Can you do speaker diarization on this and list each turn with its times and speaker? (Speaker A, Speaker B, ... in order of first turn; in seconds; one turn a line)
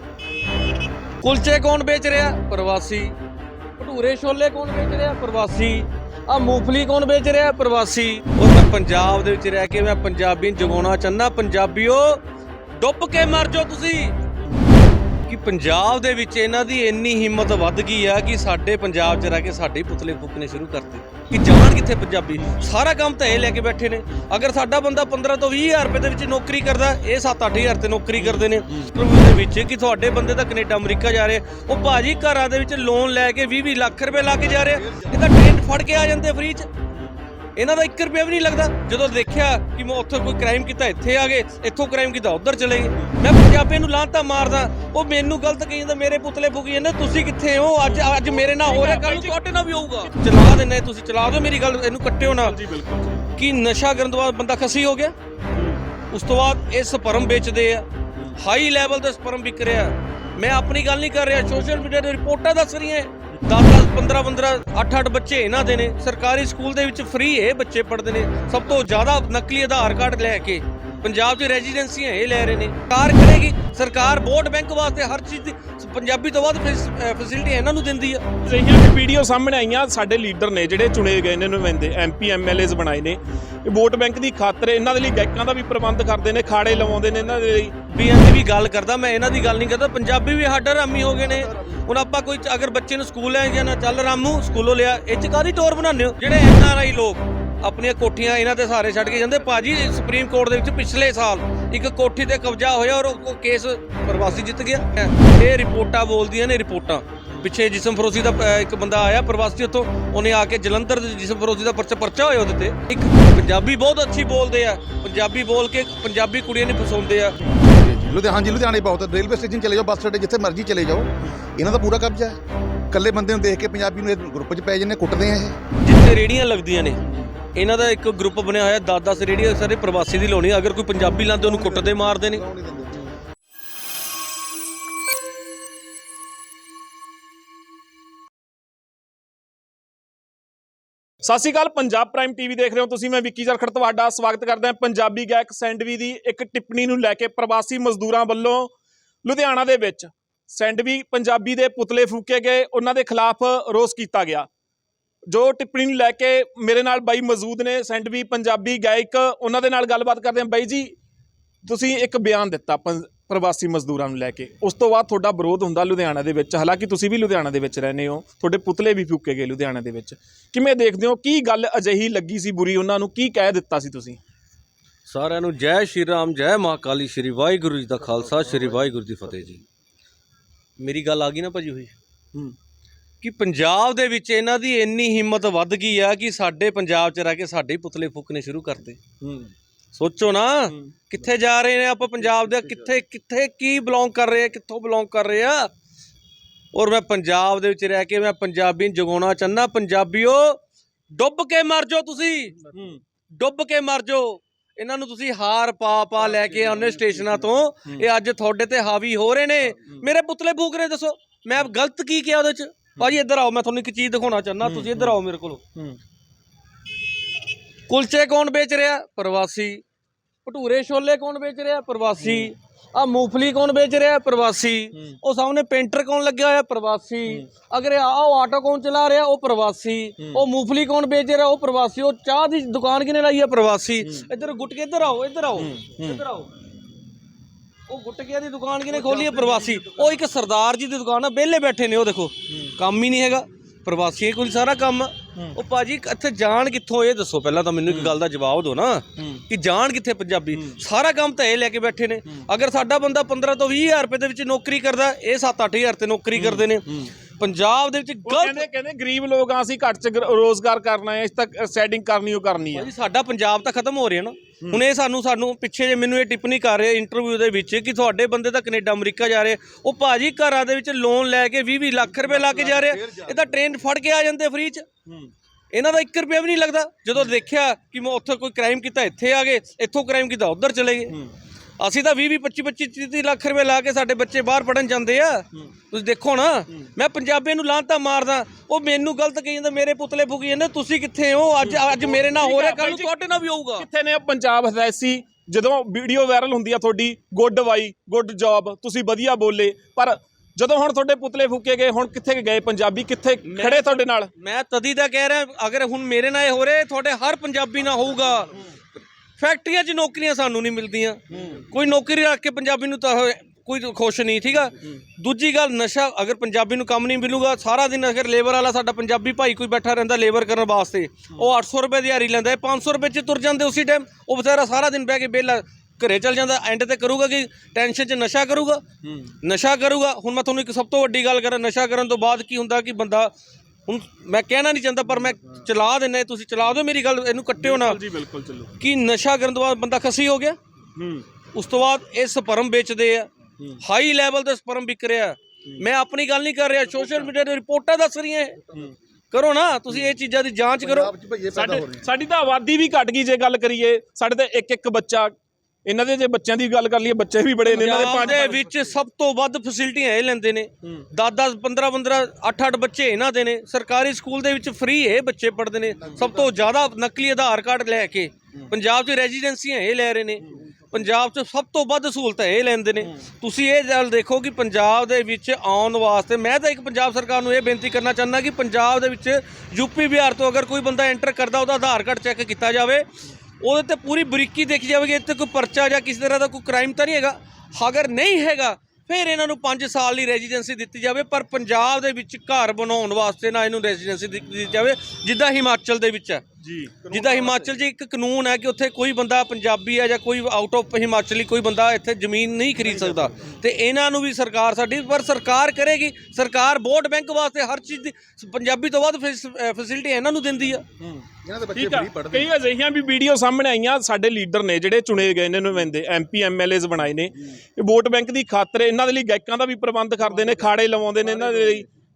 Speaker A: 1.2-3.2
Speaker A: 3.8-12.2
Speaker A: 12.8-14.2
Speaker A: 15.2-36.7
Speaker B: 28.1-28.9
Speaker C: 34.5-35.2
Speaker A: 37.5-52.6
Speaker B: 47.9-49.4
Speaker B: 52.2-53.3
Speaker A: 53.3-55.1
Speaker B: 55.5-55.8
Speaker A: 56.1-78.3
Speaker B: 78.4-87.8
Speaker A: 87.9-117.4
Speaker C: 91.2-91.8
Speaker C: 117.6-122.4
Speaker C: 122.9-125.6
Speaker A: 125.8-127.0
Speaker A: 127.5-132.4
Speaker C: 131.4-133.1
Speaker B: 141.2-148.7
Speaker B: 149.2-154.5
Speaker B: 155.3-160.9
Speaker B: 161.6-174.2
Speaker A: 175.1-179.6
Speaker A: 180.8-181.9
Speaker A: 183.2-189.1
Speaker B: 189.2-189.5
Speaker A: 189.9-195.7
Speaker A: 196.7-200.6
Speaker A: 201.1-202.7
Speaker B: 202.7-203.0
Speaker A: 203.3-215.6
Speaker B: 214.6-215.2
Speaker A: 217.9-219.8
Speaker A: 220.4-236.5
Speaker B: 222.2-222.5
Speaker B: 230.2-230.4
Speaker B: 235.6-236.2
Speaker A: 237.9-258.6
Speaker C: 238.9-240.2
Speaker B: 247.9-248.1
Speaker B: 250.5-250.8
Speaker B: 256.3-257.0
Speaker B: 258.2-262.9
Speaker A: 262.7-274.9
Speaker C: 272.2-273.6
Speaker A: 275.7-281.2
Speaker A: 281.8-293.9
Speaker B: 291.6-293.1
Speaker B: 293.8-304.3
Speaker A: 303.4-308.6
Speaker A: 309.4-328.8
Speaker B: 311.3-311.6
Speaker B: 329.0-329.3
Speaker A: 329.4-333.3
Speaker A: 333.9-338.0
Speaker B: 337.6-338.7
Speaker A: 338.8-340.6
Speaker B: 340.9-341.2
Speaker A: 341.5-348.6
Speaker B: 346.9-347.3
Speaker A: 349.3-351.1
Speaker C: 350.8-352.1
Speaker B: 351.5-355.3
Speaker B: 355.8-358.6
Speaker A: 357.7-396.4
Speaker C: 357.9-358.6
Speaker C: 366.0-366.6
Speaker B: 396.6-397.6
Speaker A: 397.1-410.8
Speaker C: 397.2-397.5
Speaker C: 402.8-403.4
Speaker B: 411.0-421.9
Speaker C: 411.4-412.5
Speaker C: 421.4-421.8